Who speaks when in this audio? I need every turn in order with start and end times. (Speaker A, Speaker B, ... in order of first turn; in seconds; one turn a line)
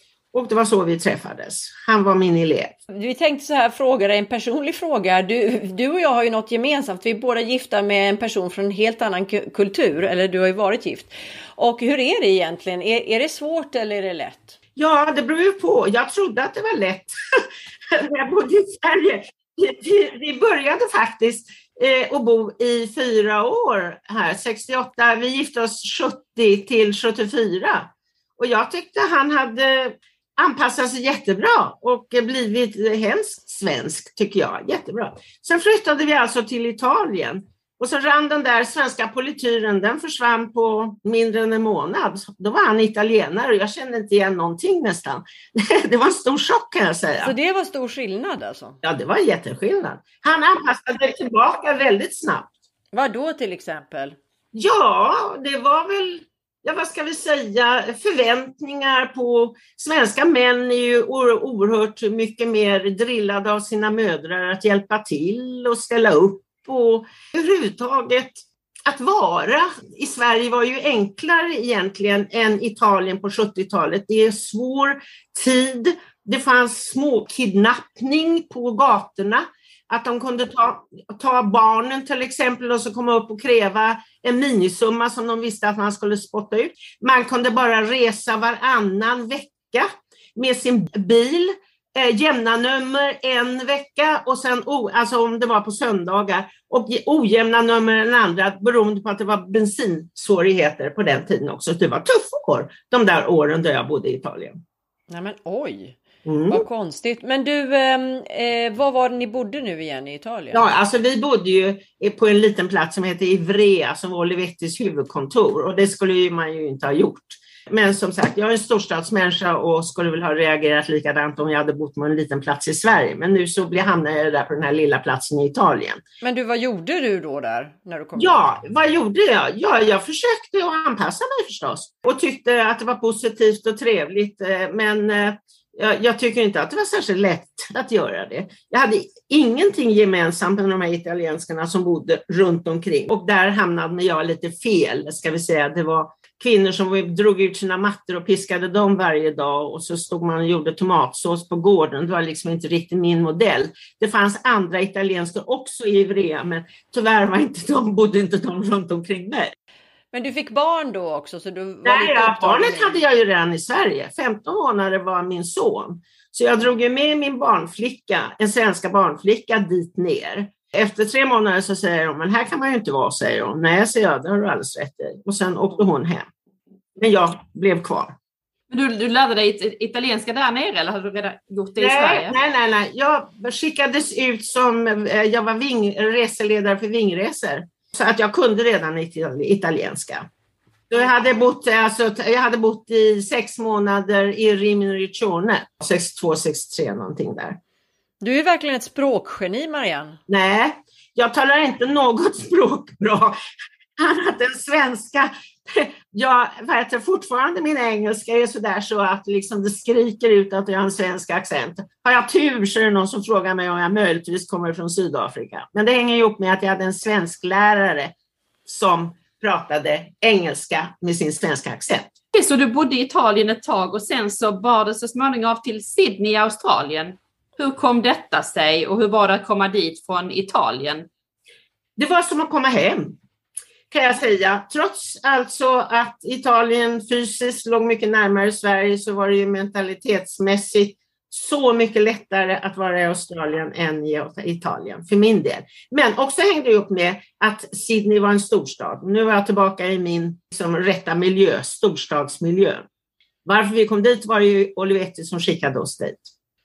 Speaker A: 0.3-2.8
Speaker B: 2.9-14.6
Speaker A: 14.8-17.4
Speaker A: 17.9-47.3
Speaker B: 47.2-48.8
Speaker A: 48.8-52.5
Speaker B: 52.9-54.2
Speaker A: 54.5-104.6
Speaker B: 105.1-106.0
Speaker A: 106.2-106.6
Speaker B: 106.5-110.7
Speaker A: 110.5-126.0
Speaker B: 126.2-128.4
Speaker A: 128.2-159.5
Speaker B: 160.1-163.0
Speaker A: 161.8-176.3
Speaker A: 177.0-178.2
Speaker C: 178.7-182.3
Speaker A: 181.8-190.3
Speaker A: 190.9-197.6
Speaker B: 198.2-200.2
Speaker A: 200.3-203.3
Speaker A: 204.0-218.1
Speaker A: 218.7-222.2
Speaker C: 222.3-231.1
Speaker A: 232.0-233.2
Speaker A: 233.9-252.8
Speaker A: 253.4-256.3